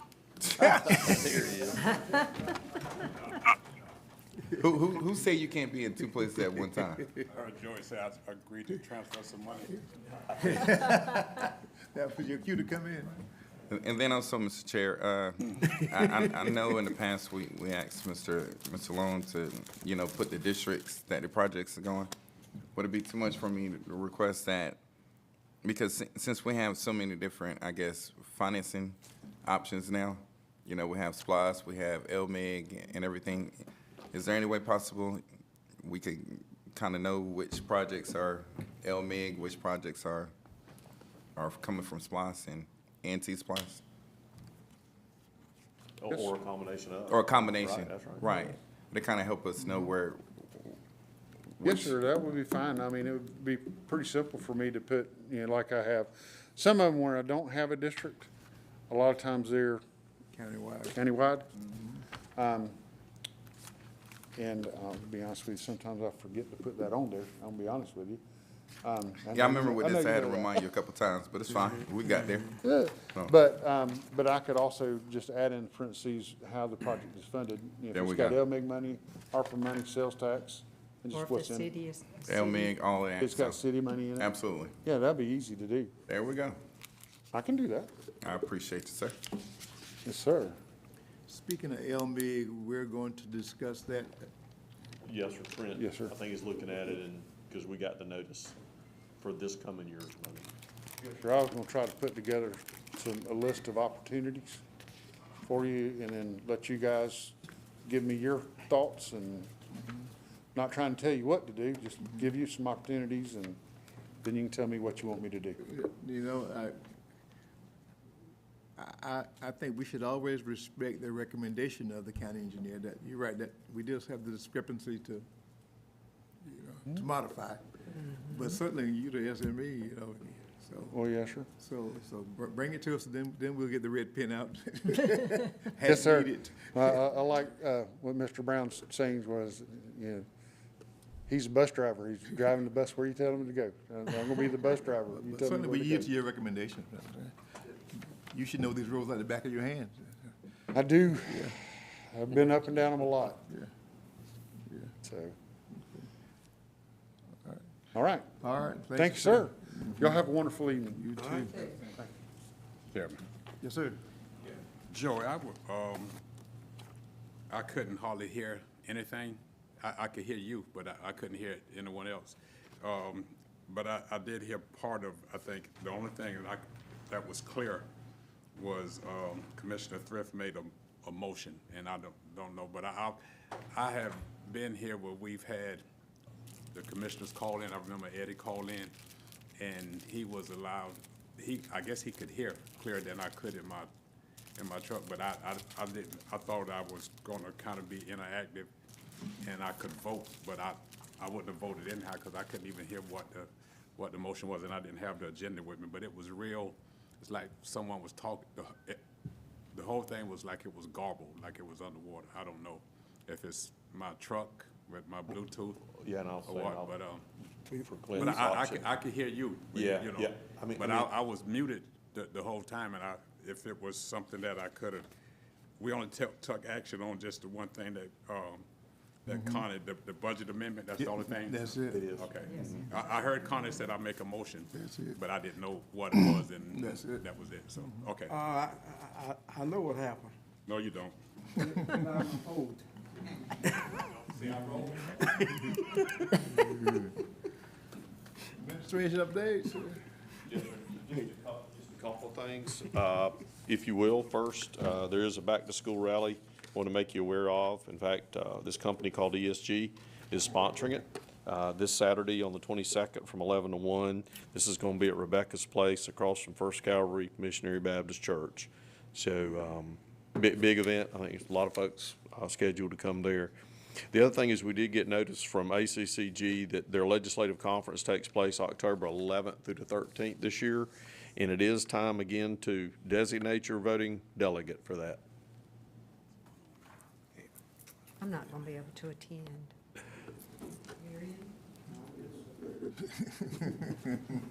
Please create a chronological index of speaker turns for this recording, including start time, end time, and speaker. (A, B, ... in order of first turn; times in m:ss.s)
0:00.6-0:01.3 A
0:00.6-0:01.9 B
0:01.9-0:02.2 C
0:04.6-0:07.1 A
0:07.3-0:09.8 D
0:10.4-0:13.2 E
0:13.7-0:22.1 A
0:22.7-0:24.8 A
0:25.6-0:35.2 A
0:35.8-0:40.3 A
0:41.4-0:43.8 A
0:46.0-0:48.2 B
0:47.1-0:50.8 A
0:51.6-0:51.9 A
0:51.6-0:58.3 F
0:58.9-0:59.8 F
1:00.3-1:01.0 E
1:00.9-1:01.5 F
1:01.6-1:02.0 E
1:02.4-1:02.8 F
1:04.4-1:08.2 F
1:08.8-1:10.6 F
1:09.3-1:12.6 A
1:12.6-1:21.7 F
1:17.9-1:18.4 A
1:21.1-1:22.7 C
1:22.2-1:23.6 A
1:23.2-1:24.3 F
1:24.2-1:24.8 A
1:24.8-1:25.9 F
1:26.1-1:26.6 A
1:27.3-1:27.9 F
1:28.2-1:29.2 A
1:30.0-1:30.6 F
1:31.3-1:34.3 E
1:35.0-1:38.6 B
1:35.8-1:36.1 F
1:39.2-1:40.5 B
1:41.2-1:44.6 F
1:45.4-1:49.5 F
1:50.5-1:53.6 F
1:54.2-1:55.6 F
1:55.6-1:56.8 E
1:58.8-2:05.2 E
2:06.4-2:11.0 E
2:10.9-2:11.5 F
2:11.6-2:16.9 E
2:15.8-2:20.2 F
2:21.3-2:26.1 F
2:25.1-2:27.3 E
2:27.9-2:30.3 E
2:30.7-2:33.4 F
2:31.3-2:31.5 E
2:34.6-2:34.9 E
2:35.0-2:35.3 F
2:35.7-2:36.1 E
2:37.9-2:38.3 F
2:38.4-2:40.2 E
2:38.9-2:41.1 F
2:40.9-2:41.8 E
2:41.8-2:42.1 F
2:42.9-2:43.2 D
2:43.6-2:44.0 E
2:44.9-2:46.2 D
2:47.5-2:57.9 D
2:58.6-3:03.2 D
3:03.7-3:05.8 D
3:06.7-3:08.9 D
3:09.6-3:13.9 D
3:14.6-3:18.7 D
3:19.4-3:29.0 D
3:29.7-3:35.8 D
3:35.9-3:36.9 B
3:36.4-3:37.2 D
3:37.7-3:38.9 B
3:38.1-3:45.1 D
3:39.7-3:41.1 B
3:45.8-3:48.6 D
3:49.2-3:58.4 D
3:49.3-3:49.7 E
3:51.0-3:52.1 E
3:51.9-3:52.9 B
3:52.5-3:52.9 C
3:54.8-3:55.2 E
3:56.1-3:57.2 E
3:58.3-4:00.3 G
4:00.7-4:01.8 D
4:02.0-4:02.8 G
4:03.9-4:05.3 D
4:06.6-4:07.1 E
4:08.5-4:10.0 E
4:10.5-4:33.5 B
4:34.1-4:45.2 B
4:48.2-4:49.7 C
4:51.0-4:52.7 C
4:53.1-4:54.3 E